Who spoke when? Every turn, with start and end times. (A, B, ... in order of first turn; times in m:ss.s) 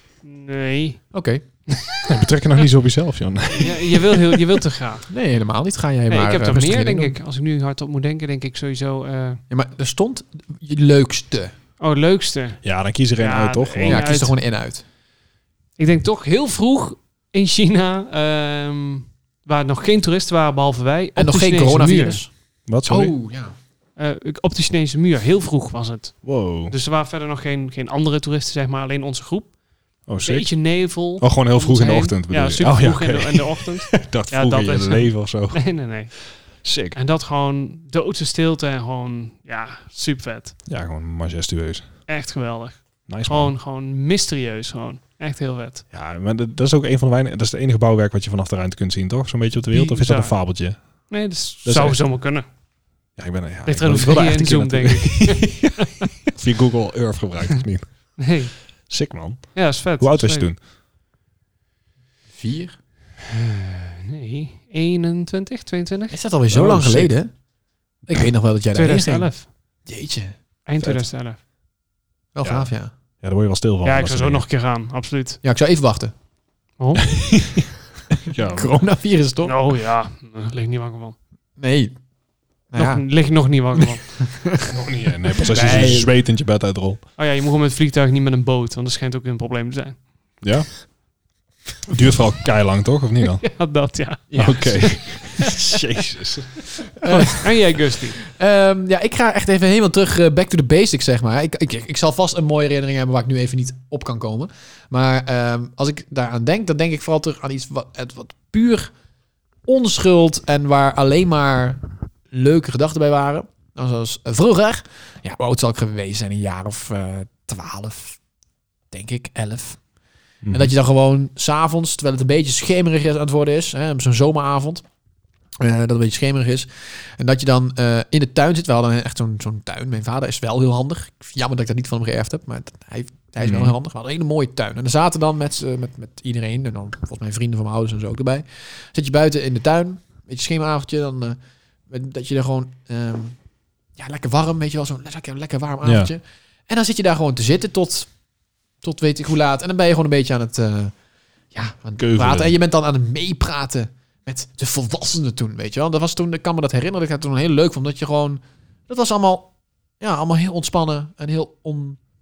0:00.2-0:01.1 A
0:01.1-0:01.4 B
0:01.7-0:02.0 A
0:02.1-0:04.5 C
0:03.5-0:05.1 A
0:05.1-0:07.2 B
0:06.1-0:09.4 A
0:09.5-0:11.5 B
0:11.8-0:12.6 A
0:12.6-0:14.0 C
0:13.2-0:14.4 A
0:13.9-0:14.8 B
0:15.8-0:22.2 A
0:21.2-0:22.3 B
0:22.7-0:23.1 C
0:22.8-0:23.5 B
0:24.0-0:29.6 A
0:26.2-0:26.8 C
0:30.1-0:35.8 C
0:30.2-0:36.4 A
0:36.6-0:37.0 C
0:36.9-0:40.6 A
0:40.7-0:41.9 C
0:42.1-0:45.8 A
0:43.1-0:43.5 C
0:45.9-0:51.1 C
0:49.7-0:50.4 A
0:51.1-0:52.4 A
0:51.6-0:52.0 C
0:53.2-0:55.7 C
0:53.7-0:56.1 A
0:56.3-0:58.4 C
0:58.2-0:58.6 A
0:58.9-1:00.6 C
0:59.6-1:00.5 A
1:02.4-1:02.8 B
1:03.3-1:06.2 A
1:06.1-1:07.3 B
1:06.5-1:07.1 C
1:08.1-1:10.4 B
1:08.7-1:09.5 A
1:10.7-1:11.4 A
1:12.4-1:12.9 B
1:12.4-1:14.4 C
1:13.8-1:15.4 A
1:15.4-1:16.1 B
1:16.8-1:17.1 A
1:17.1-1:17.7 C
1:18.2-1:18.7 C
1:18.5-1:19.6 B
1:19.4-1:21.2 A
1:21.6-1:22.0 B
1:22.7-1:23.3 B
1:22.8-1:24.4 A
1:23.8-1:24.7 B
1:24.7-1:27.0 C
1:25.5-1:26.1 B
1:27.2-1:30.1 A
1:30.4-1:30.7 C
1:31.9-1:33.5 C
1:33.4-1:35.8 A
1:34.3-1:35.1 B
1:34.3-1:36.7 C
1:37.0-1:37.5 B
1:37.1-1:38.2 A
1:38.3-1:48.9 B
1:49.7-1:58.2 B
1:58.9-1:59.8 B
2:00.4-2:00.7 C
2:00.5-2:04.8 B
2:05.6-2:23.4 B
2:13.4-2:13.8 C
2:24.0-2:28.1 B
2:25.8-2:26.1 C
2:28.8-2:30.9 B
2:31.5-2:42.0 B
2:32.0-2:32.6 C